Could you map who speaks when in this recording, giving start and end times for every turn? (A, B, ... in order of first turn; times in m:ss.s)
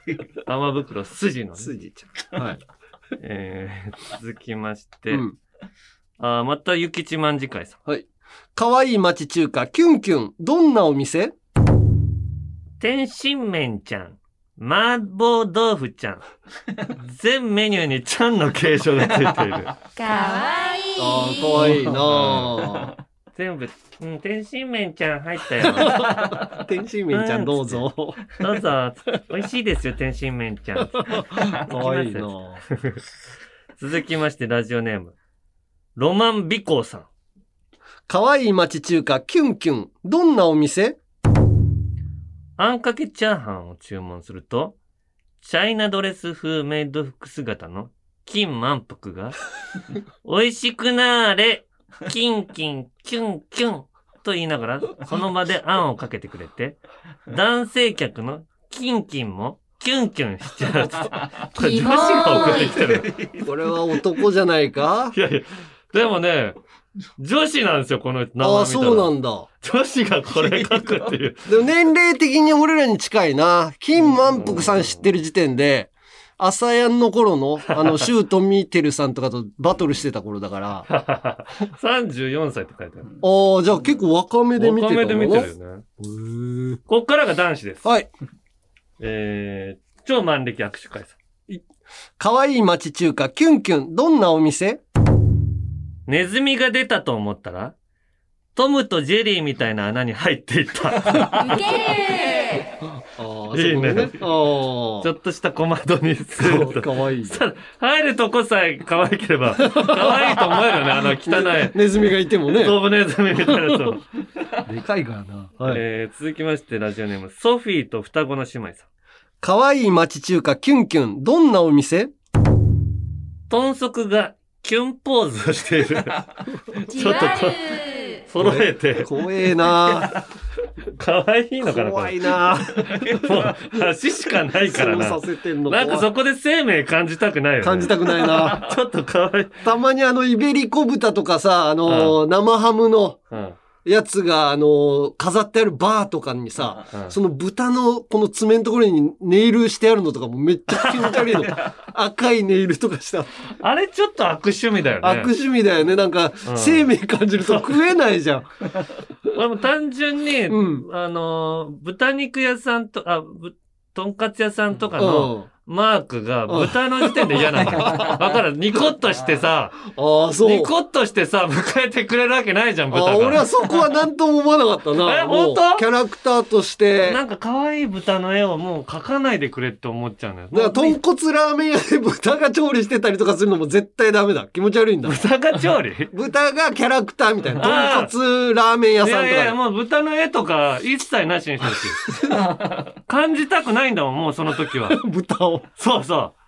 0:00.4-0:01.7 A
0:01.6-0:02.6 B
0:03.2-0:05.2 A
0:06.2-0:07.8 A
0:08.6-0:11.3 B
0:12.8-0:16.2 A
0:16.9-0:19.7 A
0:20.0-0:21.7 C
0:21.0-0:23.0 B
0:21.7-0:22.6 A
0:23.4-0:26.3 A
0:25.8-0:28.4 B
0:27.1-0:33.0 A
0:31.1-0:32.6 B
0:33.8-0:35.2 A
0:36.0-0:37.1 A
0:38.1-0:41.0 B
0:42.6-0:44.8 A
0:45.4-0:49.4 A
0:50.2-1:03.5 A
1:01.6-1:02.8 C
1:03.4-1:05.2 B
1:05.1-1:06.6 A
1:07.2-1:11.5 A
1:08.4-1:09.5 B
1:11.5-1:20.9 B
1:14.3-1:15.0 A
1:17.7-1:18.0 A
1:20.9-1:23.1 A
1:23.2-1:26.8 B
1:24.6-1:25.8 A
1:26.9-1:27.8 A
1:29.0-1:31.2 A
1:32.2-1:34.8 B
1:36.1-1:37.8 A
1:38.6-1:41.6 A
1:41.4-1:42.7 C
1:43.0-1:45.1 B
1:43.5-1:44.2 A
1:45.0-1:51.8 A
1:46.4-1:47.4 B
1:49.6-1:50.4 B
1:51.2-1:52.8 B
1:52.5-1:54.0 A
1:53.5-1:53.7 B
1:54.6-1:55.8 B
1:55.6-1:58.9 A
1:59.4-2:02.1 B
2:03.5-2:07.7 A
2:06.9-2:08.2 C
2:08.3-2:09.1 A
2:08.4-2:10.2 B
2:11.0-2:12.3 A
2:11.6-2:13.7 B
2:12.8-2:19.6 A
2:14.5-2:16.1 B
2:17.6-2:18.7 B
2:19.6-2:23.2 B
2:21.9-2:22.2 A
2:23.3-2:23.6 A
2:23.8-2:33.3 B
2:26.9-2:27.2 A
2:31.0-2:31.3 A
2:33.6-2:35.3 A
2:35.0-2:38.9 B
2:36.4-2:37.7 A
2:39.3-2:49.8 A
2:40.5-2:40.9 B
2:45.0-2:45.5 B
2:46.5-2:48.2 B
2:49.9-2:50.7 B
2:50.4-2:53.8 A
2:52.9-2:57.2 B
2:55.0-2:55.8 A
2:57.0-3:01.0 A
3:00.5-3:05.2 B
3:05.1-3:06.1 A
3:06.1-3:09.6 B
3:07.6-3:08.1 A
3:09.0-3:12.0 A
3:12.0-3:12.7 B
3:13.1-3:15.0 A
3:14.9-3:15.7 B
3:15.8-3:16.4 A